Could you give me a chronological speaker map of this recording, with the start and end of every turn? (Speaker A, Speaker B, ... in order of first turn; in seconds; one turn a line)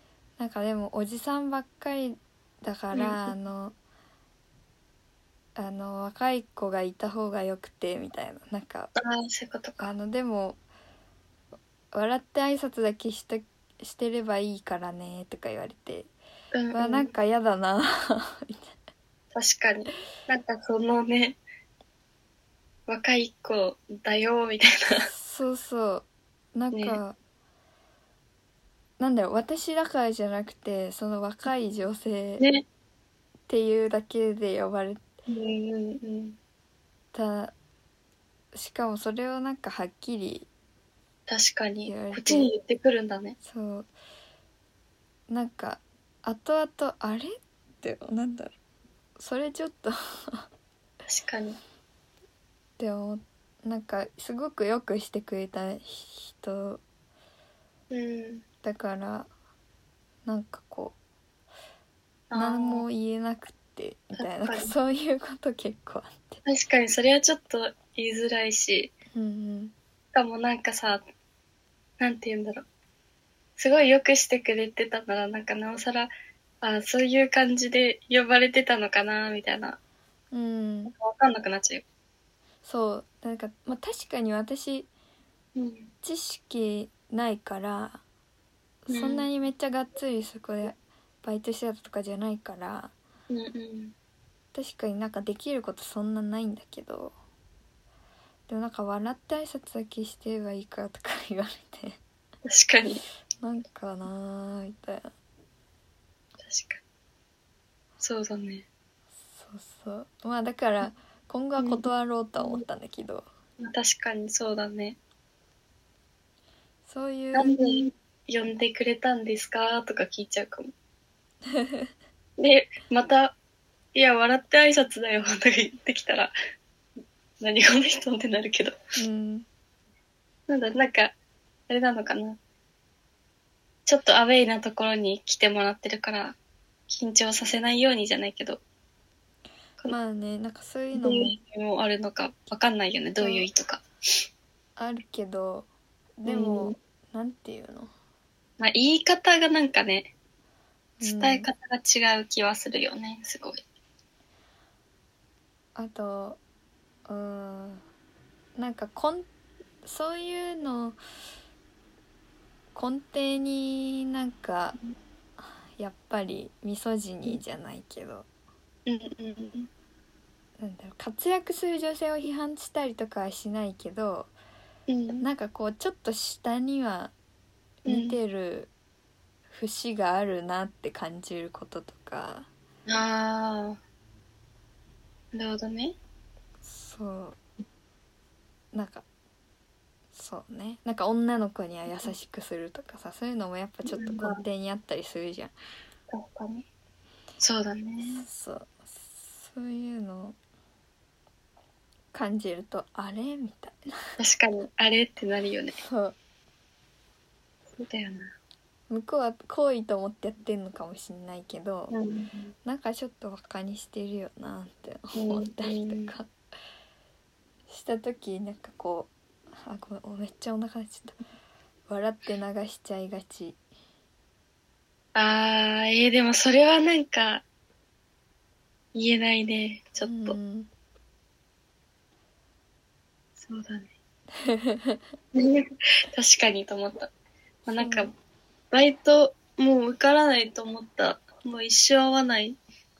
Speaker A: 0.4-3.7
Speaker B: 2.9-3.3
Speaker A: 5.5-8.9
Speaker B: 9.0-9.9
Speaker A: 9.8-10.6
Speaker A: 11.9-16.1
Speaker B: 16.5-17.1
Speaker A: 16.7-18.7
Speaker B: 19.3-21.4
Speaker B: 22.9-25.1
Speaker A: 25.1-27.1
Speaker B: 26.7-27.0
Speaker A: 29.0-32.5
Speaker A: 33.5-35.0
Speaker B: 35.3-36.4
Speaker A: 37.1-37.5
Speaker A: 38.5-40.5
Speaker B: 41.3-43.4
Speaker A: 41.9-42.5
Speaker A: 43.4-43.9
Speaker A: 45.3-48.5
Speaker A: 49.2-50.5
Speaker B: 51.0-51.6
Speaker A: 52.8-56.8
Speaker B: 57.9-58.4
Speaker A: 58.6-59.3
Speaker A: 60.2-61.0
Speaker B: 62.3-62.9
Speaker A: 62.3-66.4
Speaker B: 64.2-64.7
Speaker B: 66.4-68.9
Speaker A: 69.1-69.7
Speaker B: 70.1-71.0
Speaker B: 72.0-72.7
Speaker B: 73.6-79.8
Speaker A: 80.3-80.9
Speaker B: 80.9-81.8
Speaker A: 82.6-84.9
Speaker B: 85.5-85.9
Speaker A: 86.0-88.0
Speaker A: 88.8-92.9
Speaker B: 88.9-89.3
Speaker B: 93.3-93.9
Speaker A: 94.5-97.1
Speaker A: 98.5-102.0
Speaker B: 102.4-103.0
Speaker A: 103.4-105.1
Speaker B: 106.4-106.8
Speaker B: 108.0-108.7
Speaker A: 109.3-113.2
Speaker B: 111.6-111.8
Speaker B: 113.6-115.0
Speaker A: 116.8-117.8
Speaker B: 117.3-120.7
Speaker A: 121.5-121.9
Speaker B: 122.4-123.3
Speaker B: 123.9-126.3
Speaker B: 127.4-128.7
Speaker A: 129.0-129.4
Speaker B: 130.5-131.1
Speaker B: 131.7-132.4
Speaker B: 133.8-136.4
Speaker B: 136.9-138.6
Speaker A: 139.9-141.4
Speaker B: 140.9-143.8
Speaker A: 143.2-143.4
Speaker A: 144.8-145.7
Speaker A: 146.2-147.9
Speaker B: 146.3-146.8
Speaker B: 148.6-150.1
Speaker A: 151.0-151.5
Speaker B: 151.0-153.6
Speaker A: 155.7-156.4
Speaker A: 157.1-157.8
Speaker A: 158.6-159.2
Speaker A: 159.8-161.0
Speaker A: 162.7-164.8
Speaker A: 165.4-168.2
Speaker B: 168.8-169.7
Speaker A: 170.6-174.3
Speaker B: 174.9-175.2
Speaker A: 175.2-177.1
Speaker A: 177.8-178.7
Speaker B: 177.8-178.2
Speaker A: 179.5-182.5
Speaker B: 182.8-183.8
Speaker B: 185.3-185.9
Speaker A: 186.6-187.4
Speaker A: 188.7-189.0
Speaker A: 190.1-195.5
Speaker B: 193.9-194.4
Speaker B: 196.1-196.7
Speaker B: 197.4-198.2
Speaker A: 198.0-200.3
Speaker A: 202.1-204.1
Speaker B: 204.2-205.8
Speaker A: 205.8-206.2
Speaker B: 207.7-208.3
Speaker A: 208.9-212.0
Speaker B: 211.9-212.5
Speaker A: 212.7-216.3
Speaker B: 215.1-216.1
Speaker A: 217.7-221.2
Speaker A: 221.9-223.6
Speaker B: 225.1-227.4
Speaker B: 228.9-230.4
Speaker A: 230.0-230.7
Speaker B: 233.4-233.9
Speaker A: 234.4-235.0
Speaker B: 235.3-237.1
Speaker A: 237.7-238.1
Speaker B: 237.7-238.1
Speaker B: 238.7-242.6